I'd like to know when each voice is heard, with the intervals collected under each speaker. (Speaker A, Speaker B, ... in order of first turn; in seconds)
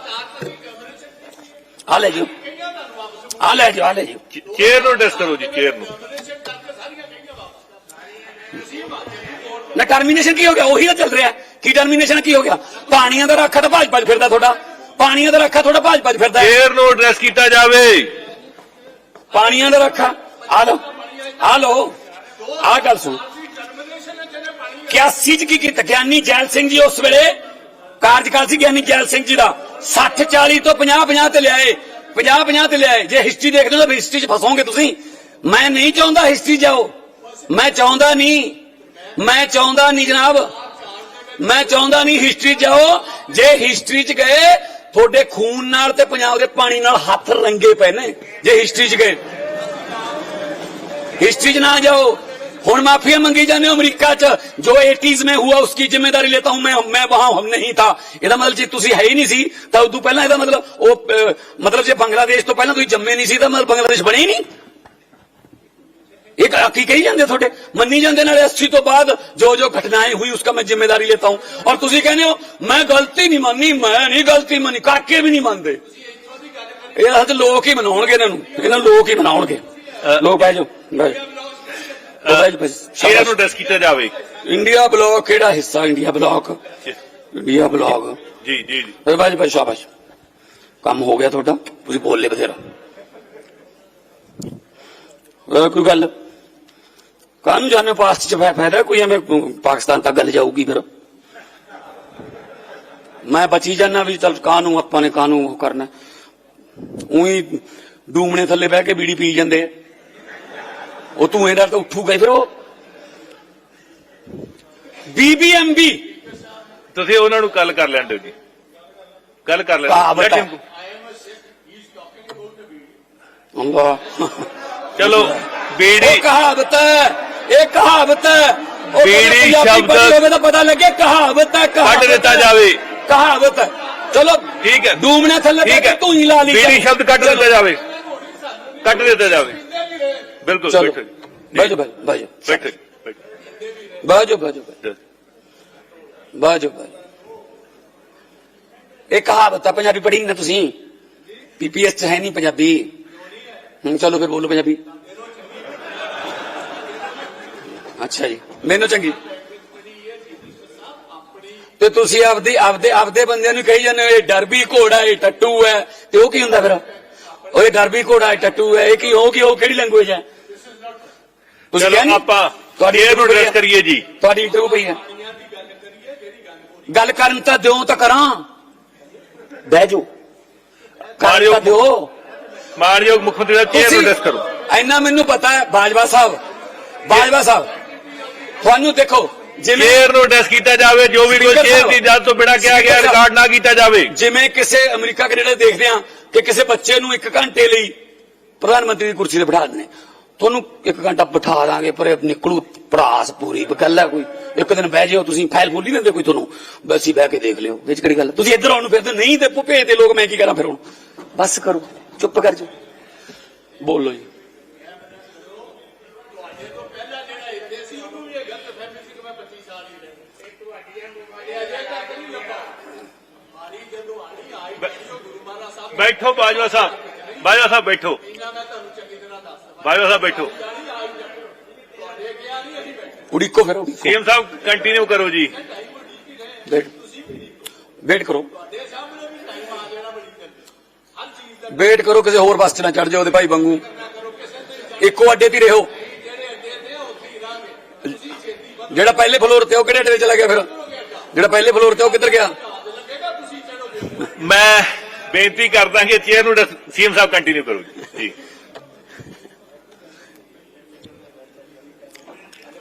Speaker A: 1.9-2.3, 3.4-4.2, 9.7-16.5, 19.3-20.9, 21.4-21.9, 22.5-23.2, 24.8-27.3, 28.0-36.9, 37.5-38.6, 39.1-40.5, 41.4-49.2, 51.2-64.4, 66.4-75.8, 76.9-81.2, 82.2-83.3, 84.4-86.6, 87.3-88.2, 89.0-89.9, 90.8-92.6, 95.5-96.1, 97.4-100.8, 103.2-105.9, 106.8-109.7, 111.2-112.5, 115.1-116.0, 119.9-120.5, 123.5-137.5, 140.7-141.0, 141.5-142.7, 144.0-144.8, 146.3-146.9, 149.1-150.8, 151.6-152.9, 153.8-154.8, 158.0-159.2, 161.8-166.8, 167.5-170.2, 171.7-172.2, 172.8-173.6, 174.2-175.0, 176.9-178.4, 179.7-180.1, 181.2-182.1, 183.7-184.1, 184.7-186.4, 187.1-187.7, 188.6-190.0, 191.3-192.0, 192.6-193.2, 194.1-197.9, 198.6-199.9, 200.4-210.8, 211.3-212.7, 213.8-214.3, 233.3-234.1, 236.7-236.9, 238.0-238.5, 241.7-243.8, 245.0-245.9, 248.9-250.7, 251.3-252.6
Speaker B: 4.4-6.0, 16.4-18.1, 83.0-84.1, 88.4-88.9, 116.9-118.3, 119.4-120.6, 125.0-126.2, 129.0-130.2, 131.8-132.8, 134.6-135.0, 135.6-137.8, 138.8-139.6, 140.2-141.7, 142.4-143.1, 171.7-174.1, 181.2-181.8, 182.8-184.5, 189.7-194.1, 225.9-228.2, 229.8-230.5, 234.0-235.6, 254.1-258.3
Speaker C: 6.3-6.7, 217.2-219.6, 221.6-222.3, 232.2-232.7, 239.3-240.2, 246.5-247.6